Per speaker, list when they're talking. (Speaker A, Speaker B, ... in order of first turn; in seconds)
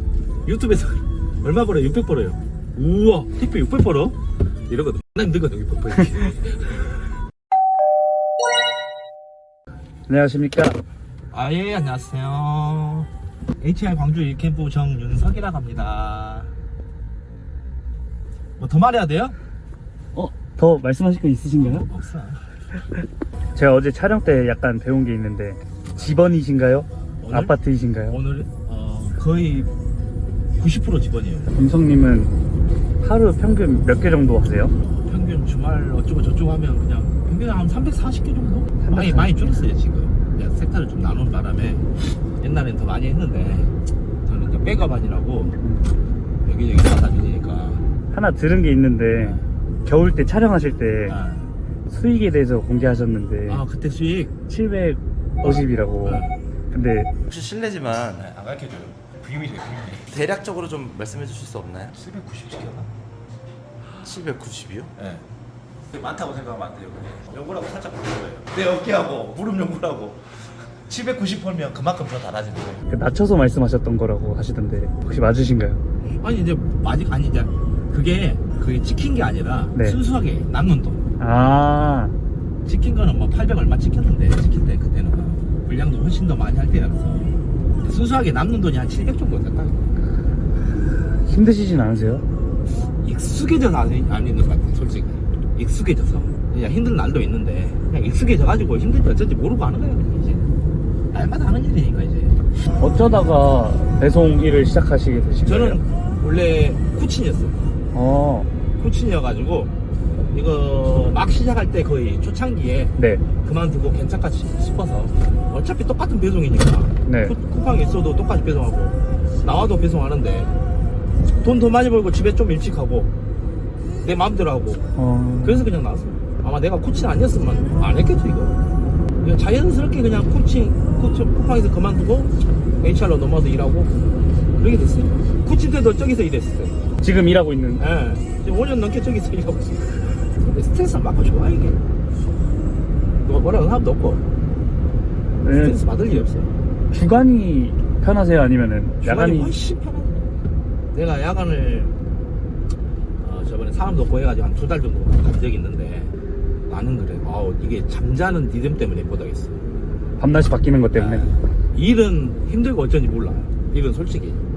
Speaker A: 0.5-7.1, 11.3-16.5, 18.6-19.4, 21.6-22.6, 27.2-27.6, 28.1-29.7, 30.6-31.6, 34.8-45.6, 46.4-47.8, 49.2-49.5, 51.1-51.5, 53.5-54.3, 55.4-56.4, 58.0-60.2, 61.9-62.9, 64.9-65.3, 65.9-72.9, 76.2-81.0, 82.7-89.8, 93.0-100.5, 101.1-102.4, 105.5-107.6, 108.8-109.8, 110.3-120.6, 121.4-123.1, 124.0-124.8, 125.4-128.6, 129.2-134.0, 134.6-136.9, 137.8-141.8, 143.2-144.3, 145.5-146.6, 149.0-150.3, 150.9-152.0, 153.2-156.2, 156.7-159.6, 160.9-164.4
Speaker B: 10.1-10.8, 20.1-21.9, 23.5-28.2, 31.6-32.4, 33.0-34.7, 38.8-39.7, 45.6-45.9, 48.1-51.2, 51.9-53.6, 54.5-57.1, 72.9-75.8, 79.8-80.0, 81.2-82.2, 90.9-92.3, 102.8-105.8, 107.9-108.5, 113.0-113.2, 117.1-117.3, 125.0-125.7, 137.0-137.8, 145.4-145.8, 146.9-149.5, 160.2-161.4
Speaker C: 57.3-58.2, 60.1-61.9, 64.0-64.9